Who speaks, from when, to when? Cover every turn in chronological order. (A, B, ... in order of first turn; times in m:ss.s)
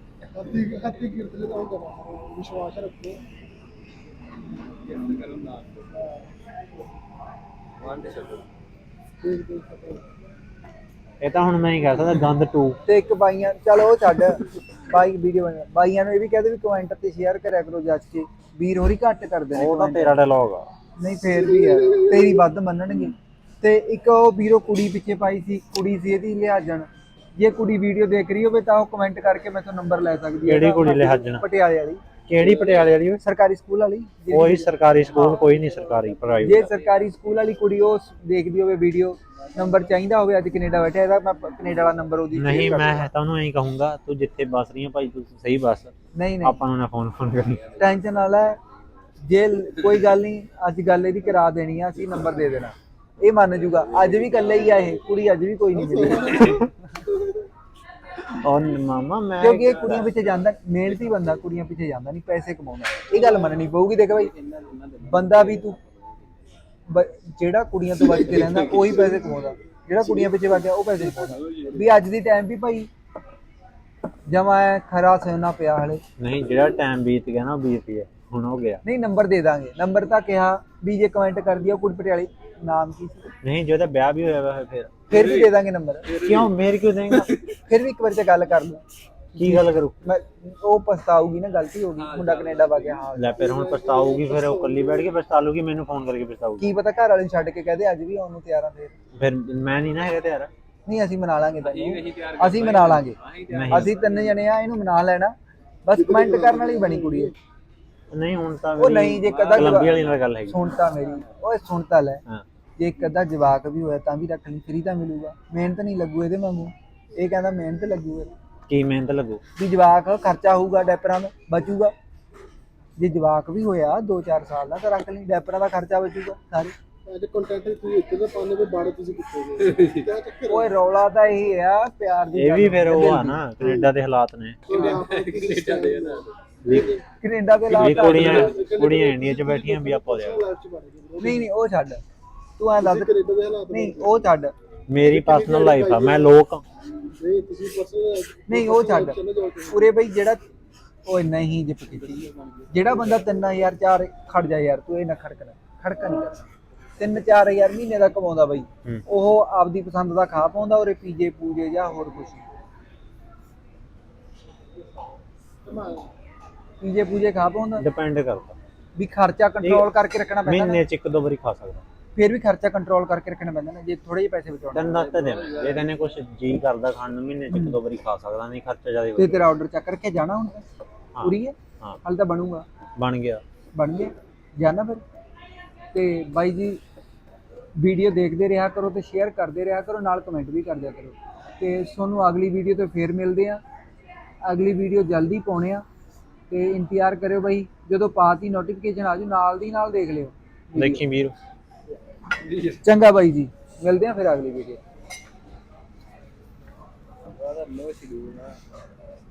0:00.3-0:03.2 A
0:04.8-0:05.8 B
0:06.0-0:06.2 A
0:07.8-0:08.4 B
0:09.2-0:10.1 A
0:11.2-0:12.8 C
0:12.8-0:20.2 D
0:19.5-0:20.7 C
0:21.0-0:32.0 D
0:21.6-0:22.3 A
0:30.4-0:31.4 C
0:32.3-0:33.2 C
0:33.2-0:35.3 D
0:34.3-0:36.7 C
0:35.4-0:35.7 B
0:36.4-0:43.1 D
0:42.3-0:45.9 C
0:46.1-0:46.6 D
0:46.4-0:47.7 C
0:47.8-0:48.6 D
0:49.3-0:56.7 D
0:55.7-0:57.3 A
0:56.3-0:56.6 B
0:58.3-1:00.1 C
0:59.4-1:04.3 D
1:04.1-1:06.0 B
1:05.0-1:05.8 D
1:06.9-1:12.9 D
1:08.0-1:09.2 B
1:10.9-1:11.9 B
1:14.3-1:16.0 D
1:16.2-1:18.8 C
1:18.8-1:23.3 D
1:23.4-1:25.0 C
1:25.1-1:26.1 D
1:25.1-1:25.5 B
1:26.0-1:26.5 B
1:26.2-1:27.3 C
1:27.6-1:28.8 D
1:29.3-1:33.4 D
1:29.4-1:29.9 C
1:32.0-1:33.0 B
1:33.2-1:36.6 C
1:33.3-1:35.1 A
1:36.6-1:38.9 D
1:39.1-1:40.5 C
1:40.8-1:45.3 D
1:41.6-1:44.4 B
1:43.5-1:43.9 C
1:45.8-1:47.3 D
1:45.9-1:47.3 A
1:48.1-1:50.6 C
1:48.8-1:52.2 D
1:49.2-1:50.2 B
1:52.8-1:58.3 D
1:58.7-1:59.4 C
1:59.6-2:01.9 D
2:03.0-2:06.7 D
2:07.0-2:10.7 A
2:09.6-2:10.1 B
2:10.5-2:13.9 D
2:12.3-2:14.6 C
2:14.7-2:16.3 B
2:14.7-2:17.0 A
2:16.6-2:16.9 C
2:17.2-2:18.5 D
2:17.7-2:20.4 C
2:17.8-2:21.5 A
2:21.2-2:22.0 D
2:22.6-2:23.1 D
2:22.8-2:24.3 A
2:23.7-2:24.5 D
2:24.9-2:26.6 C
2:25.0-2:26.3 A
2:27.1-2:29.9 A
2:28.5-2:29.2 D
2:29.7-2:30.4 D
2:31.0-2:36.4 D
2:31.9-2:33.2 B
2:37.0-2:42.4 D
2:45.6-2:46.1 A
2:46.8-2:47.8 D
2:47.8-2:48.6 C
2:49.0-2:50.8 D
2:49.6-2:49.9 C
2:50.4-2:51.8 C
2:52.2-2:54.9 D
2:54.7-2:59.5 C
2:54.9-2:55.8 B
2:57.5-2:57.8 D
2:59.2-3:00.6 D
3:01.2-3:02.0 C
3:01.2-3:02.6 D
3:03.0-3:03.4 C
3:03.7-3:05.0 D
3:05.9-3:06.8 D
3:07.8-3:13.6 D
3:14.4-3:15.8 D
3:16.5-3:21.0 D
3:20.7-3:21.3 C
3:22.4-3:22.8 B
3:22.8-3:24.8 D
3:27.3-3:28.6 B